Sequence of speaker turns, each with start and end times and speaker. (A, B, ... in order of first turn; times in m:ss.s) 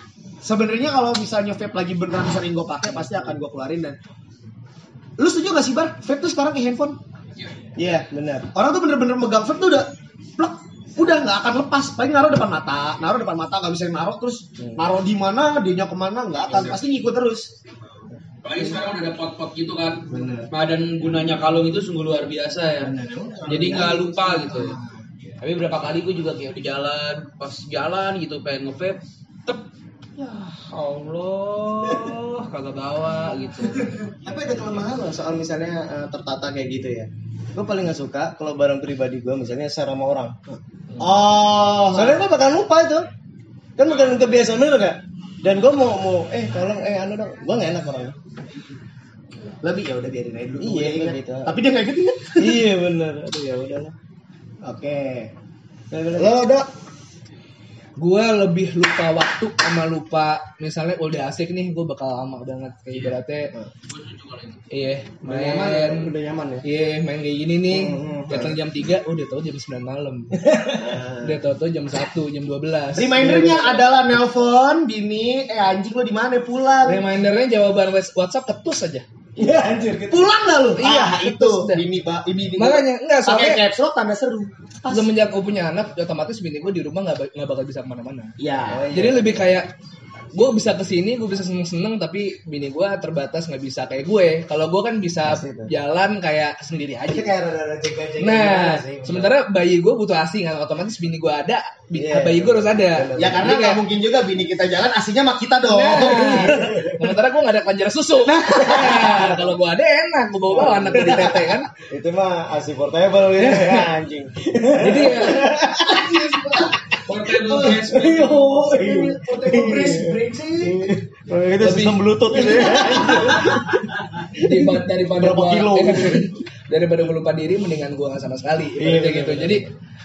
0:00.4-0:04.0 A
0:02.9-0:03.2 B
0:05.2-0:07.0 A
0:07.8-0:08.5 B
0:08.5-0:17.5 A
0:14.6-0:14.8 B
0:18.4-0:22.9 C
0:20.1-0:20.5 B
0:22.8-0:24.9 B
0:23.5-0:24.8 C
0:25.4-0:29.7 C
0:30.2-0:34.0 C
0:34.2-0:40.4 B
0:40.5-0:42.2 A
0:41.9-0:43.1 B
0:43.8-0:48.2 B
0:49.6-0:52.6 A
0:50.6-0:51.6 B
0:52.4-0:54.0 B
0:54.6-0:55.3 A
0:55.9-0:56.3 B
0:56.2-0:56.7 A
0:58.0-1:03.5 D
1:03.9-1:04.6 C
1:04.7-1:06.1 D
1:05.2-1:06.6 B
1:06.6-1:13.5 D
1:07.7-1:08.6 B
1:10.5-1:11.4 B
1:13.0-1:17.0 A
1:13.1-1:13.9 B
1:16.8-1:19.0 D
1:19.4-1:20.3 B
1:20.1-1:25.1 A
1:20.8-1:21.8 D
1:22.6-1:23.6 D
1:24.9-1:28.4 D
1:28.4-1:28.9 A
1:28.7-1:29.5 B
1:28.9-1:29.7 D
1:30.3-1:37.3 D
1:35.2-1:35.7 B
1:37.1-1:39.4 B
1:38.2-1:43.8 D
1:41.9-1:43.6 B
1:43.2-1:46.9 A
1:45.7-1:51.7 D
1:48.8-1:49.1 A
1:48.9-1:49.2 B
1:50.5-1:56.0 B
1:53.4-1:53.9 D
1:54.8-1:55.5 D
1:55.6-1:56.8 A
1:57.1-1:58.5 C
1:57.3-1:57.8 A
1:57.6-2:03.9 B
1:58.6-2:00.9 A
2:01.6-2:03.1 D
2:02.5-2:03.5 A
2:04.2-2:09.7 D
2:04.4-2:06.3 B
2:08.8-2:09.7 B